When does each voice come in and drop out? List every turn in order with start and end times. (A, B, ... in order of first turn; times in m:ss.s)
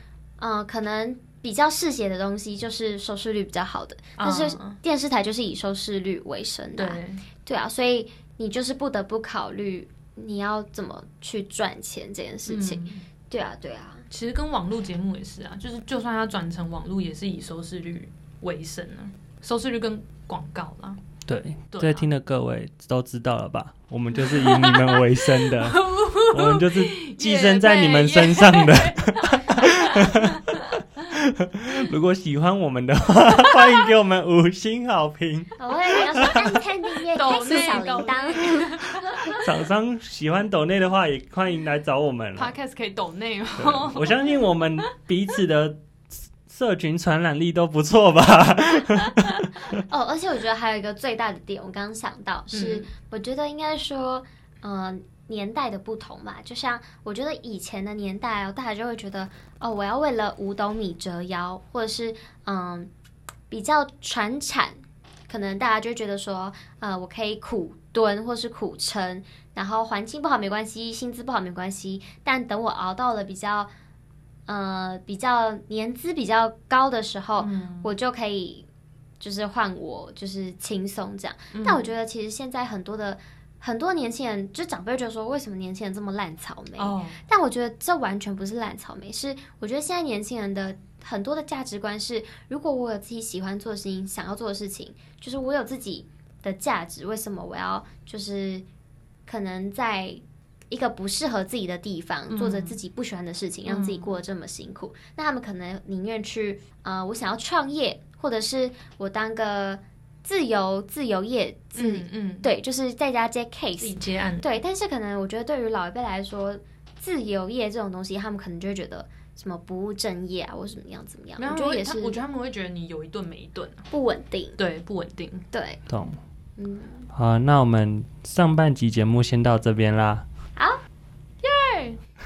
0:00.4-0:14.0 A
0:04.2-0:04.8 B
0:06.8-0:07.2 B
0:12.5-0:13.0 B
0:14.1-0:21.0 B
0:21.2-0:36.6 C
0:21.7-0:22.0 B
0:24.1-0:30.8 B
0:35.6-0:39.3 A
0:37.1-0:39.5 B
0:39.3-0:42.5 C
0:42.4-0:44.2 B
0:43.6-0:45.8 C
0:46.4-0:49.8 C
0:49.7-1:02.9 A
0:52.5-0:52.9 B
1:03.5-1:13.7 A
1:14.5-1:18.6 A
1:17.4-1:17.9 B
1:19.2-1:38.6 A
1:21.5-1:21.9 B
1:26.8-1:27.2 B
1:39.3-2:02.2 A
1:42.3-1:42.8 B
1:43.6-1:44.1 B
1:51.8-1:52.5 B
1:53.8-1:54.4 B
2:01.4-2:03.9 B
2:03.9-2:04.6 A
2:04.6-2:05.5 B
2:05.5-2:05.8 A
2:05.9-2:06.2 C
2:06.6-2:07.1 A
2:07.1-2:10.2 C
2:11.4-2:12.0 B